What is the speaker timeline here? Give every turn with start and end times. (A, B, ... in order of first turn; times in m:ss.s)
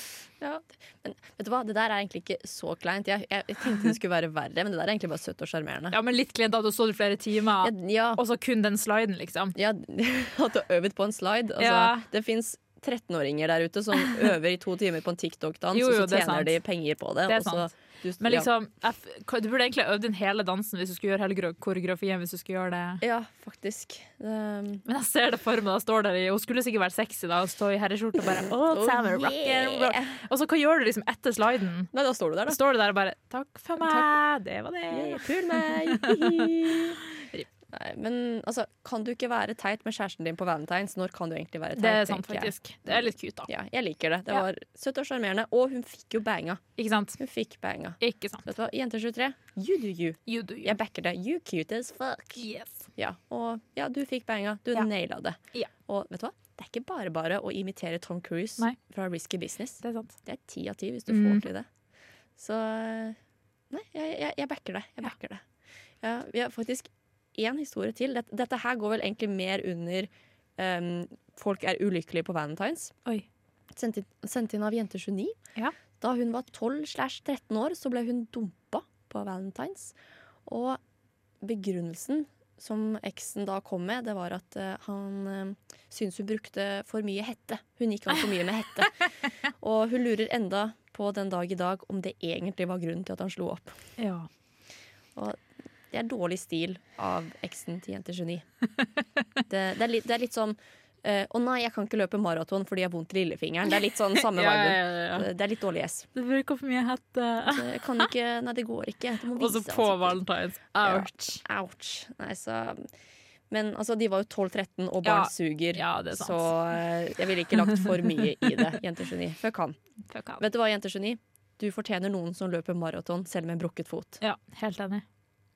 0:00.4-0:06.0 A
0:05.9-0:09.6 B
0:07.6-0:08.2 A
0:09.6-0:18.5 A
0:11.6-0:12.1 B
0:15.7-0:16.6 B
0:17.3-0:23.0 B
0:23.0-0:24.8 A
0:24.9-0:31.9 B
0:28.7-0:30.2 A
0:31.9-0:32.6 A
0:32.5-0:36.5 B
0:33.8-0:34.1 A
0:34.9-0:37.0 A
0:37.7-0:46.6 A
0:41.8-0:43.5 B
0:46.8-0:47.2 B
0:47.2-0:52.4 A
0:48.0-0:48.5 B
0:50.3-0:50.8 B
0:52.4-0:52.9 B
0:53.0-1:01.7 A
0:59.8-1:00.2 B
1:01.1-1:01.4 B
1:02.4-1:03.2 A
1:03.7-1:05.4 A
1:06.0-1:13.0 A
1:13.8-1:15.4 A
1:16.0-1:19.9 A
1:20.5-1:20.8 A
1:21.4-1:29.0 A
1:29.6-1:33.8 A
1:34.0-1:34.3 B
1:35.9-1:38.4 A
1:39.5-1:46.1 A
1:44.2-1:45.3 B
1:46.2-1:48.0 B
1:47.5-1:50.2 A
1:49.4-1:51.4 B
1:50.8-1:52.9 A
1:53.5-1:59.8 A
1:55.0-1:56.5 B
2:00.1-2:00.4 B
2:00.4-2:04.2 A
2:04.2-2:05.0 B